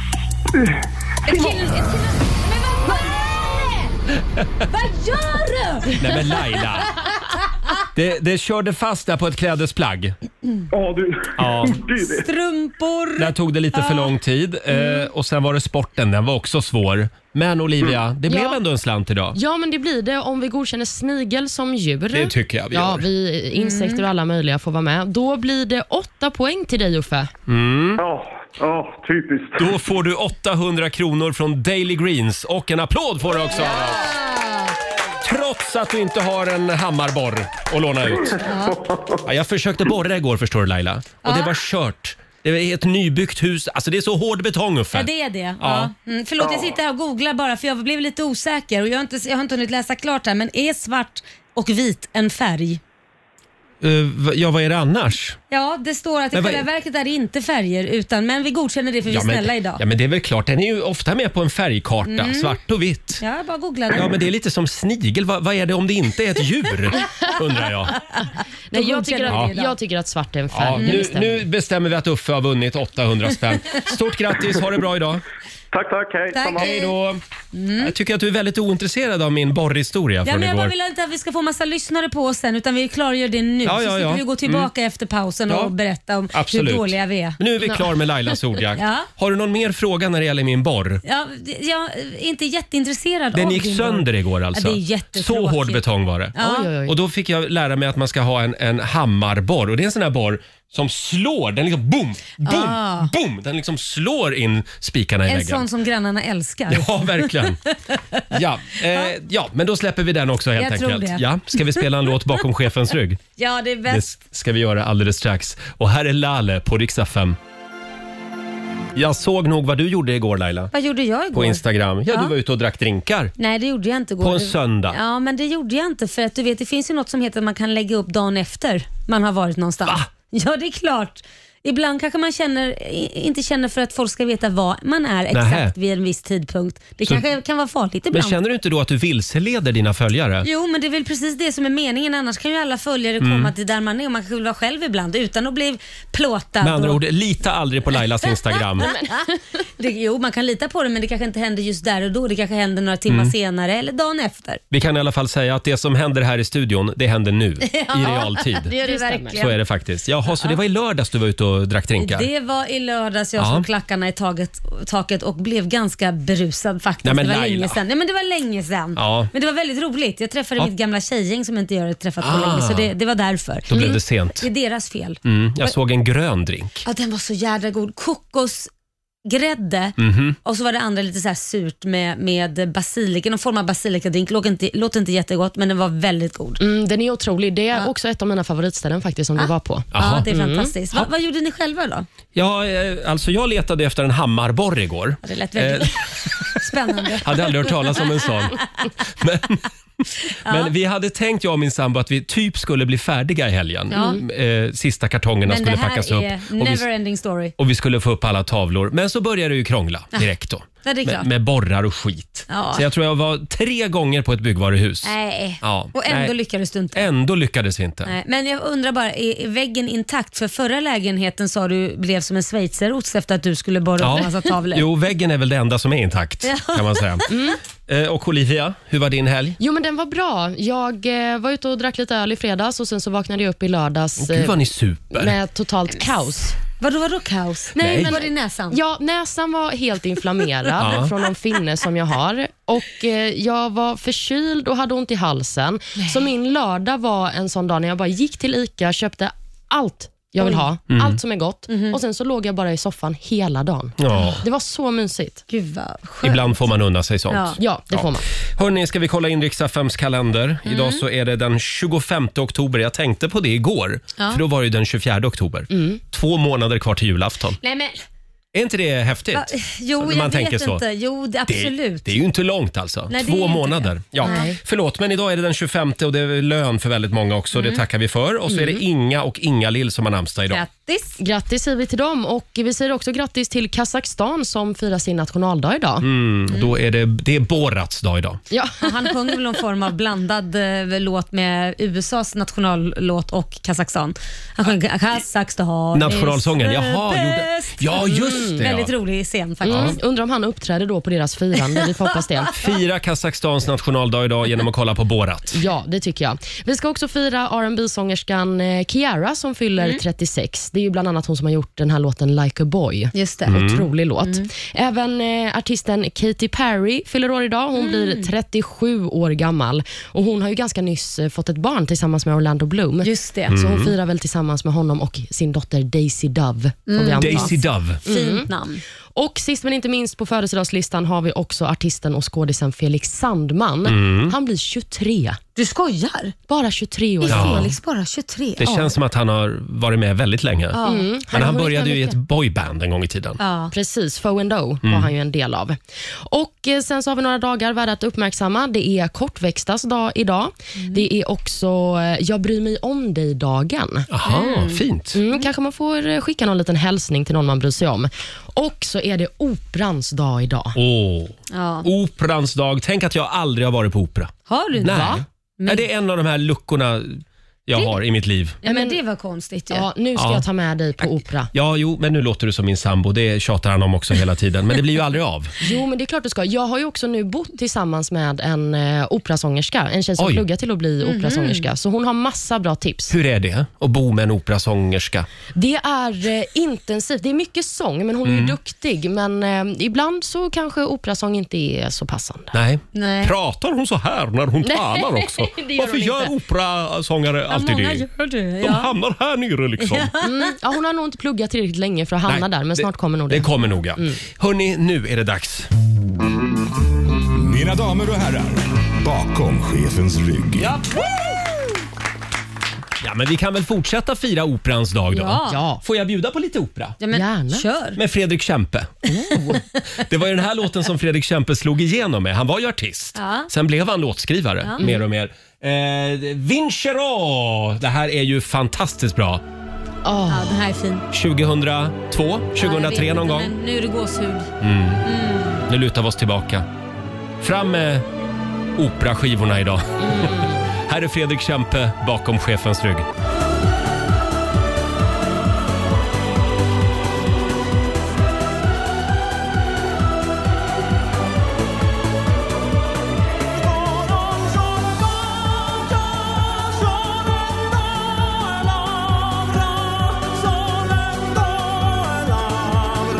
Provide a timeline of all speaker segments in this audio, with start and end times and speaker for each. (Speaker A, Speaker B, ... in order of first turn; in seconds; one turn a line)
Speaker A: 0.5-1.8
Speaker B: 1.2-3.9
Speaker B: 4.7-7.4
Speaker C: 6.0-7.0
Speaker C: 7.9-10.1
Speaker A: 10.7-12.3
Speaker C: 11.4-11.8
Speaker B: 12.1-14.1
Speaker C: 13.2-19.4
Speaker B: 14.7-15.0
Speaker D: 18.3-18.6
Speaker D: 19.3-27.3
Speaker C: 22.1-23.1
Speaker B: 23.6-24.0
Speaker C: 27.5-28.0
Speaker A: 28.0-29.8
Speaker C: 29.6-34.1
Speaker B: 33.7-34.7
Speaker C: 35.2-38.4
Speaker B: 38.4-38.8
Speaker A: 38.8-39.0
Speaker C: 39.2-45.1
Speaker B: 41.2-41.5
Speaker B: 44.9-52.8
Speaker C: 45.6-45.9
Speaker C: 53.8-55.4
Speaker B: 55.5-59.8
Speaker C: 56.3-56.6
Speaker C: 59.0-63.2
Speaker B: 62.0-62.6
Speaker B: 63.2-64.1
Speaker C: 63.9-68.0
Speaker D: 68.7-71.4
Speaker B: 68.7-69.7
Speaker C: 70.5-75.2
Speaker B: 70.7-71.0
Speaker A: 75.7-76.7
Speaker B: 76.3-76.9
Speaker C: 76.6-77.2
Speaker B: 77.5-77.9
Speaker C: 77.8-80.7
Speaker B: 80.2-87.4
Speaker C: 83.6-84.7
Speaker C: 85.5-85.7
Speaker C: 86.3-91.0
Speaker D: 87.6-87.9
Speaker B: 88.8-89.1
Speaker B: 91.0-95.8
Speaker C: 93.3-105.7
Speaker B: 96.3-96.7
Speaker D: 96.4-96.9
Speaker B: 102.4-103.1
Speaker B: 105.3-108.2
Speaker C: 106.7-107.6
Speaker C: 108.3-113.2
Speaker B: 108.9-109.1
Speaker B: 110.5-111.8
Speaker B: 113.4-114.2
Speaker C: 113.9-117.4
Speaker C: 118.9-120.7
Speaker B: 120.7-122.3
Speaker C: 121.3-123.3
Speaker B: 123.4-138.3
Speaker C: 124.2-125.0
Speaker C: 135.3-135.7
Speaker C: 138.1-140.5
Speaker B: 140.4-147.0
Speaker C: 143.2-143.5
Speaker C: 146.6-148.9
Speaker B: 148.8-154.6
Speaker D: 148.8-149.1
Speaker C: 153.1-153.3
Speaker C: 154.7-158.7
Speaker B: 157.6-159.6
Speaker D: 158.0-159.4
Speaker C: 159.3-162.3
Speaker B: 162.0-175.7
Speaker C: 163.4-163.7
Speaker C: 167.0-167.8
Speaker C: 168.9-169.3
Speaker C: 172.2-172.9
Speaker C: 173.7-174.4
Speaker D: 173.7-174.0
Speaker C: 175.2-176.8
Speaker B: 176.8-178.7
Speaker B: 179.2-186.6
Speaker C: 180.0-180.4
Speaker D: 186.6-190.7
Speaker B: 189.4-192.1
Speaker C: 189.9-190.3
Speaker C: 192.3-196.5
Speaker B: 195.2-198.6
Speaker C: 197.2-198.6
Speaker C: 199.2-199.6
Speaker B: 200.4-200.7
Speaker C: 200.4-206.8
Speaker B: 203.9-204.2
Speaker B: 205.4-207.5
Speaker C: 207.6-216.3
Speaker B: 210.8-211.3
Speaker B: 212.5-212.8
Speaker B: 215.0-217.1
Speaker C: 216.9-218.1
Speaker B: 218.0-224.9
Speaker C: 224.0-227.2
Speaker B: 226.4-227.4
Speaker D: 227.3-227.6
Speaker C: 227.9-229.6
Speaker D: 229.6-236.6
Speaker C: 234.2-235.3
Speaker B: 236.8-238.8
Speaker C: 237.8-238.2
Speaker D: 237.8-255.4
Speaker C: 240.8-241.1
Speaker C: 250.9-251.2
Speaker B: 251.7-252.0
Speaker C: 254.0-254.4
Speaker B: 255.5-256.7
Speaker C: 256.2-267.6
Speaker B: 257.3-257.6
Speaker D: 257.6-258.3
Speaker B: 260.6-261.0
Speaker B: 264.2-264.4
Speaker D: 265.7-266.0
Speaker B: 267.6-268.0
Speaker C: 268.5-270.8
Speaker B: 269.3-272.1
Speaker C: 271.5-280.6
Speaker B: 273.1-274.5
Speaker D: 274.2-274.6
Speaker B: 277.5-277.8
Speaker D: 278.5-278.8
Speaker B: 280.5-281.2
Speaker D: 281.2-286.1
Speaker C: 286.0-288.4
Speaker D: 288.5-288.9
Speaker B: 288.8-300.0
Speaker C: 295.9-298.9
Speaker D: 298.0-298.6
Speaker D: 299.6-302.6
Speaker C: 299.6-300.0
Speaker C: 302.6-305.6
Speaker D: 305.6-327.5
Speaker B: 313.1-313.6
Speaker C: 313.5-313.9
Speaker B: 314.2-314.5
Speaker B: 317.8-318.3
Speaker B: 323.0-323.6
Speaker C: 323.5-323.9
Speaker B: 326.9-328.8
Speaker C: 327.2-328.0
Speaker D: 328.0-328.5
Speaker D: 329.1-335.4
Speaker C: 333.8-334.4
Speaker B: 335.6-336.3
Speaker D: 336.5-337.7
Speaker B: 337.2-338.9
Speaker C: 337.3-337.7
Speaker C: 338.6-340.8
Speaker B: 340.7-341.1
Speaker D: 340.8-342.1
Speaker C: 341.3-343.4
Speaker B: 343.4-343.7
Speaker D: 343.7-354.1
Speaker C: 344.8-345.1
Speaker B: 350.8-351.0
Speaker C: 354.1-355.2
Speaker B: 354.2-354.8
Speaker D: 355.1-360.8
Speaker C: 360.7-368.6
Speaker B: 361.5-361.9
Speaker B: 364.5-365.9
Speaker D: 364.8-365.2
Speaker B: 368.6-369.9
Speaker D: 368.6-369.0
Speaker D: 369.7-371.5
Speaker C: 370.1-370.4
Speaker C: 371.5-375.6
Speaker D: 375.6-383.1
Speaker C: 380.2-380.4
Speaker B: 381.0-381.7
Speaker C: 383.1-385.3
Speaker D: 385.5-392.5
Speaker C: 388.2-388.6
Speaker C: 392.5-398.1
Speaker B: 392.9-393.3
Speaker D: 394.6-396.3
Speaker B: 397.5-398.9
Speaker C: 398.6-400.1
Speaker B: 399.8-400.5
Speaker D: 400.2-404.2
Speaker C: 402.2-405.7
Speaker E: 407.3-410.8
Speaker C: 410.6-410.9
Speaker C: 413.0-417.0
Speaker B: 415.1-415.6
Speaker D: 415.5-415.8
Speaker B: 417.0-418.0
Speaker D: 417.1-417.6
Speaker C: 417.9-419.0
Speaker D: 419.1-419.6
Speaker C: 420.0-429.4
Speaker B: 423.1-423.5
Speaker D: 430.0-430.5
Speaker B: 430.3-431.0
Speaker C: 431.1-433.5
Speaker B: 432.6-434.5
Speaker C: 434.6-435.1
Speaker B: 435.0-435.6
Speaker C: 435.6-436.7
Speaker C: 437.4-438.1
Speaker C: 438.8-443.1
Speaker D: 440.0-440.6